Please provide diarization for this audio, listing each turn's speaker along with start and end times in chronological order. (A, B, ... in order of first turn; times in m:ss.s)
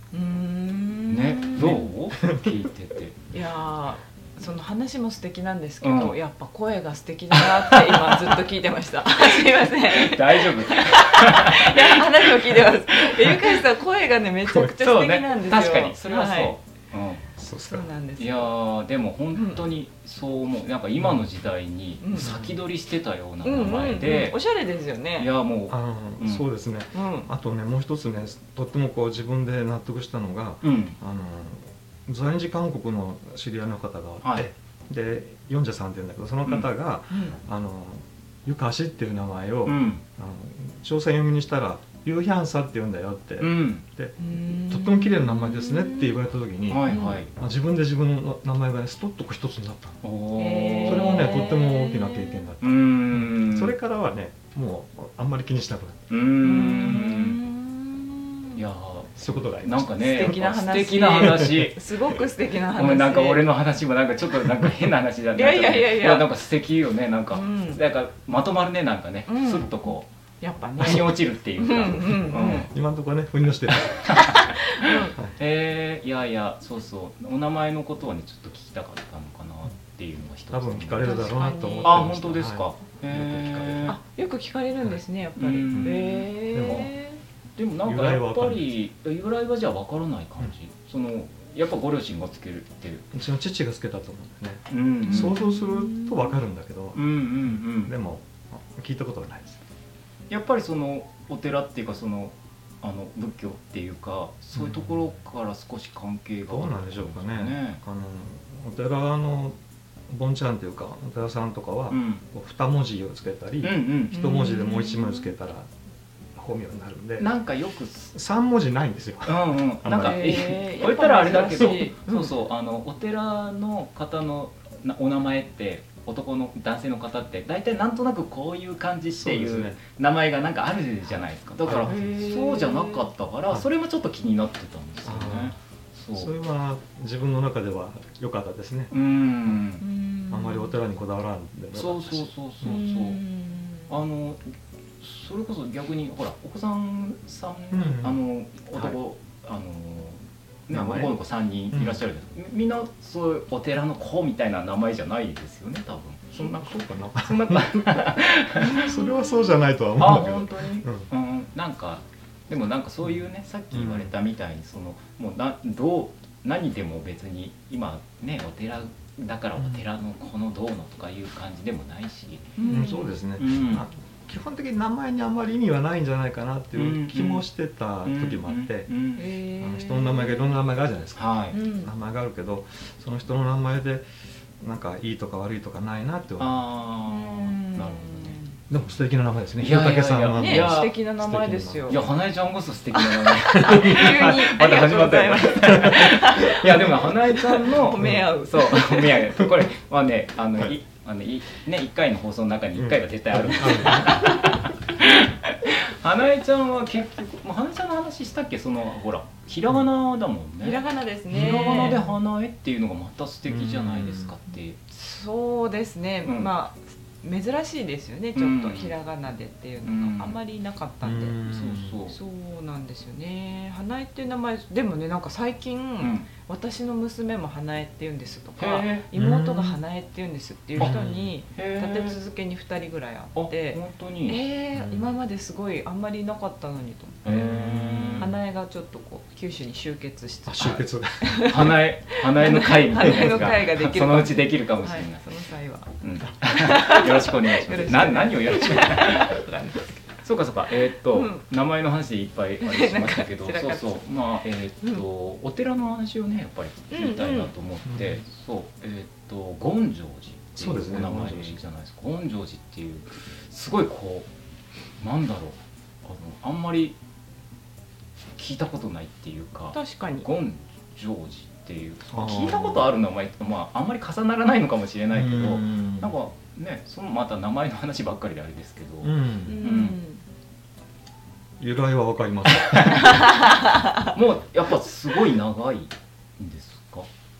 0:00.1-0:01.9 A
0:01.1-0:03.2 B
0:01.6-0:02.6 C
0:03.3-0:16.5 A
0:05.8-0:06.2 B
0:07.3-0:08.4 B
0:09.3-0:13.5 B
0:14.4-0:14.7 C
0:14.6-0:17.3 B
0:17.4-0:17.9 C
0:17.6-0:18.5 A
0:18.2-0:24.4 B
0:19.3-0:19.6 A
0:21.0-0:21.2 C
0:22.0-0:22.3 A
0:22.2-0:22.6 C
0:23.4-0:25.3 A
0:25.2-0:26.4 B
0:25.7-0:50.0 C
0:26.9-0:27.3 A
0:30.6-0:31.0 B
0:37.1-0:37.4 A
0:39.6-0:40.0 B
0:43.4-0:43.8 B
0:44.2-0:46.2 A
0:46.7-0:47.3 B
0:46.8-0:47.2 A
0:50.0-0:51.5 B
0:50.4-0:52.5 A
0:50.8-0:56.1 C
0:52.6-0:53.7 B
0:56.1-0:57.4 B
0:56.4-0:58.6 A
0:58.5-1:01.8 B
0:59.2-1:00.3 C
1:00.0-1:03.4 A
1:01.2-1:01.6 C
1:02.7-1:10.1 B
1:05.3-1:06.3 A
1:07.3-1:07.8 A
1:09.3-1:12.7 A
1:10.8-1:12.7 B
1:12.3-1:14.2 C
1:13.7-1:24.0 B
1:14.1-1:15.1 A
1:20.5-1:24.0 C
1:21.0-1:22.1 A
1:23.9-1:27.2 A
1:25.4-1:26.9 B
1:25.7-1:26.0 C
1:26.5-1:26.9 C
1:27.6-1:33.0 B
1:27.8-1:28.7 C
1:33.1-1:39.6 C
1:34.7-1:35.4 B
1:35.0-1:36.4 A
1:36.9-1:37.9 B
1:40.3-1:47.8 B
1:44.6-1:45.0 C
1:46.5-1:49.6 C
1:50.1-1:55.7 C
1:51.9-1:52.2 B
1:53.6-1:54.2 B
1:54.1-1:55.3 A
1:56.3-1:57.3 C
1:57.2-1:58.1 B
1:58.1-2:00.4 C
1:59.2-2:16.3 B
1:59.9-2:02.3 A
2:09.1-2:09.8 C
2:11.6-2:12.0 C
2:11.8-2:13.0 A
2:15.0-2:15.5 C
2:16.1-2:18.9 C
2:18.9-2:19.8 B
2:19.8-2:20.7 A
2:20.3-2:22.3 C
2:21.7-2:23.2 B
2:22.6-2:24.0 A
2:23.9-2:24.4 B
2:25.0-2:38.8 B
2:27.7-2:28.2 C
2:30.7-2:31.1 C
2:31.7-2:32.0 C
2:36.4-2:41.1 C
2:38.6-2:39.7 A
2:40.0-2:52.7 B
2:43.7-2:44.1 C
2:49.6-2:49.8 C
2:52.6-2:53.1 A
2:52.7-2:58.9 C
2:53.4-2:53.8 B
2:56.7-2:57.5 B
2:58.0-2:59.3 B
2:59.2-3:00.6 A
2:59.6-3:04.1 C
3:01.2-3:01.6 B
3:01.5-3:01.9 A
3:04.6-3:06.6 C
3:06.4-3:08.4 B
3:07.1-3:08.5 A
3:08.7-3:12.1 C
3:09.6-3:11.0 B
3:10.3-3:12.0 A
3:11.9-3:34.8 B
3:13.4-3:19.4 A
3:13.5-3:14.3 C
3:15.5-3:17.1 C
3:18.0-3:18.3 C
3:22.8-3:24.5 C
3:24.1-3:24.6 A
3:30.6-3:32.1 A
3:33.5-3:34.3 C
3:34.9-3:41.4 A
3:36.2-3:36.5 B
3:38.4-3:38.9 B
3:39.8-3:40.4 B
3:41.0-3:42.0 C
3:41.4-3:42.2 B
3:42.1-3:57.5 A
3:46.0-3:46.3 B
3:48.6-3:49.0 B
3:49.1-3:49.8 C
3:50.8-3:51.3 C
3:51.5-3:52.2 B
3:53.3-3:54.4 B
3:54.7-3:55.1 C
3:57.2-3:58.3 B
3:57.2-3:58.4 C
3:58.2-4:05.9 A
4:00.5-4:01.5 C
4:01.4-4:05.2 B
4:03.0-4:03.5 C
4:06.0-4:09.4 B
4:06.4-4:09.9 A
4:10.2-4:24.3 B
4:11.1-4:11.4 A
4:12.6-4:14.0 A
4:16.9-4:17.5 A
4:17.9-4:18.2 C
4:20.6-4:21.6 C
4:25.0-4:27.0 B
4:28.4-4:40.0 B
4:29.7-4:30.3 A
4:32.1-4:32.9 C
4:35.1-4:36.1 C
4:39.0-4:39.6 C
4:39.5-4:40.2 A
4:41.6-4:43.2 C
4:42.6-4:43.1 B
4:43.0-4:44.1 A
4:44.0-4:47.1 B